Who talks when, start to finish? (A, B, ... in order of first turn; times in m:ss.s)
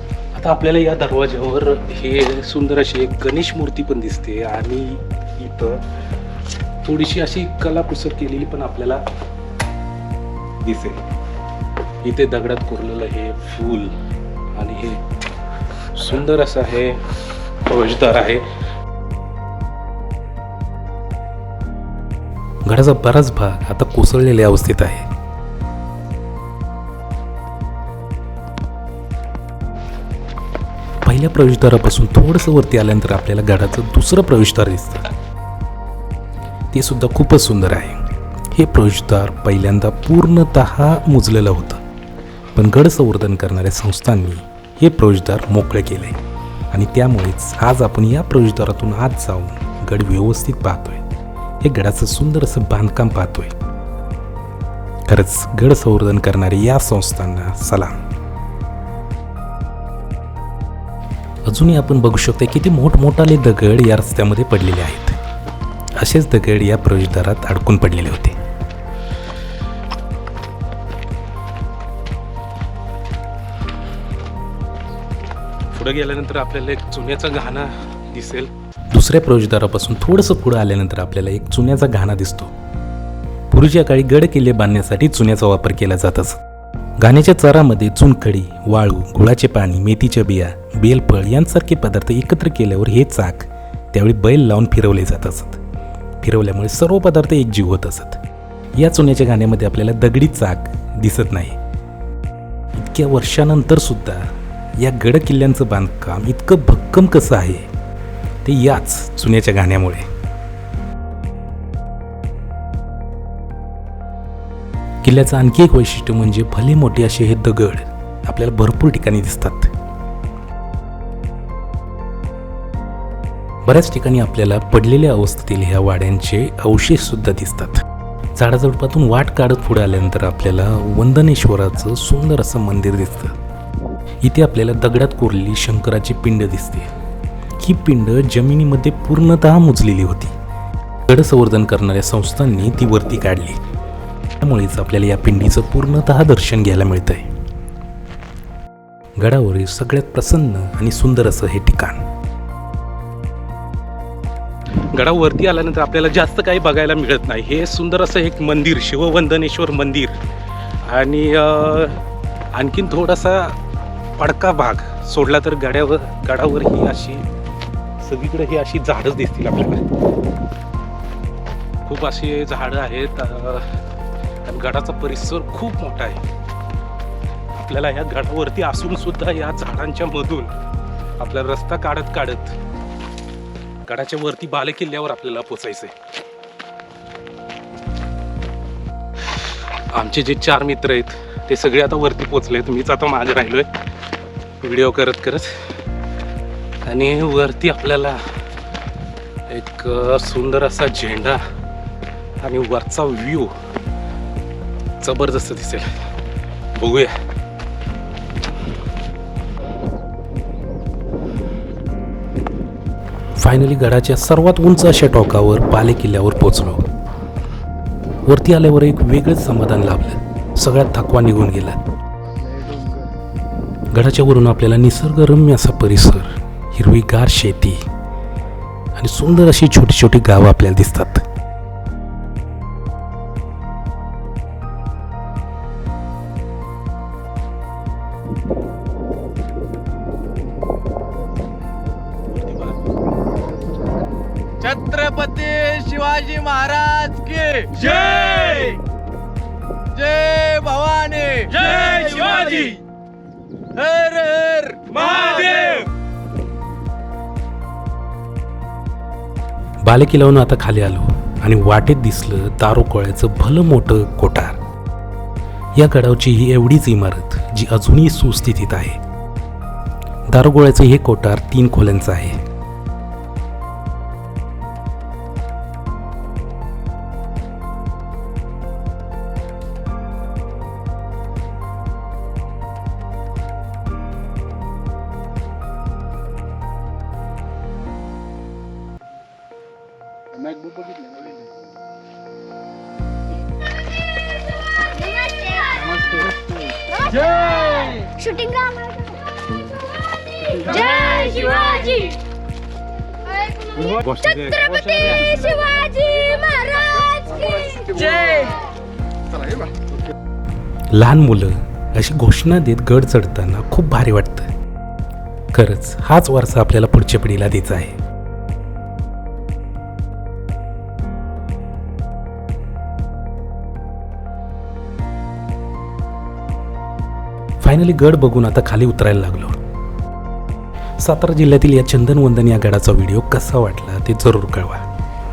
0:00.3-0:05.8 A
0:06.8-0:09.0 A
0:10.6-0:11.0 A
0:12.0-0:14.0 A
0:14.6-0:15.0 A
0:15.9-0:18.5 A
0:22.6-0:25.1 B
0:31.0-0:35.1 B
0:36.7-0:41.8 B
0:42.5-0:46.2 B
0:46.7-0:51.0 B
0:51.6-0:53.5 B
0:55.1-0:57.9 B
1:01.4-1:05.2 B
1:06.0-1:08.4 B
1:15.7-1:18.5 A
1:18.9-1:22.5 B
1:23.5-1:26.4 B
1:27.0-1:35.6 B
1:36.2-1:38.2 B
1:38.8-1:41.6 B
1:42.8-1:44.2 B
1:44.8-1:47.7 B
1:48.4-1:50.0 B
1:55.0-1:59.7 B
2:03.6-2:07.8 B
2:08.4-2:13.4 B
2:14.2-2:16.9 B
2:17.6-2:20.3 B
2:21.1-2:23.6 B
2:24.4-2:27.2 B
2:29.2-2:32.0 B
2:34.9-2:40.2 A
2:40.9-2:42.0 A
2:42.5-2:43.6 A
2:44.2-2:47.3 A
2:48.0-2:50.0 A
2:51.8-2:53.8 A
2:54.4-2:56.2 A
2:57.6-3:00.5 A
3:01.2-3:02.6 A
3:03.8-3:05.9 A
3:09.3-3:13.7 A
3:14.6-3:15.8 A
3:16.8-3:18.3 A
3:19.5-3:21.4 A
3:22.4-3:23.5 A
3:25.0-3:25.9 A
3:26.8-3:27.1 A
3:33.4-3:36.8 B
3:38.2-3:41.8 B
3:42.4-3:43.1 C
3:43.9-3:47.8 B
3:49.0-3:51.2 B
4:04.6-4:08.8 C
4:05.7-4:07.5 A
4:10.0-4:12.6 C
4:11.7-4:12.8 A
4:13.8-4:15.5 C
4:15.1-4:15.8 A
4:19.8-4:24.6 B
4:25.8-4:29.0 B
4:30.3-4:32.4 B
4:50.4-4:51.3 C
4:54.9-4:55.9 D
4:55.9-4:56.4 A
4:56.9-4:59.4 D
5:00.6-5:02.2 D
5:03.3-5:03.6 D
5:03.7-5:04.9 A
5:04.7-5:08.5 D
5:10.9-5:14.5 B
5:15.5-5:18.0 B
5:27.6-5:29.6 B
5:31.0-5:34.8 B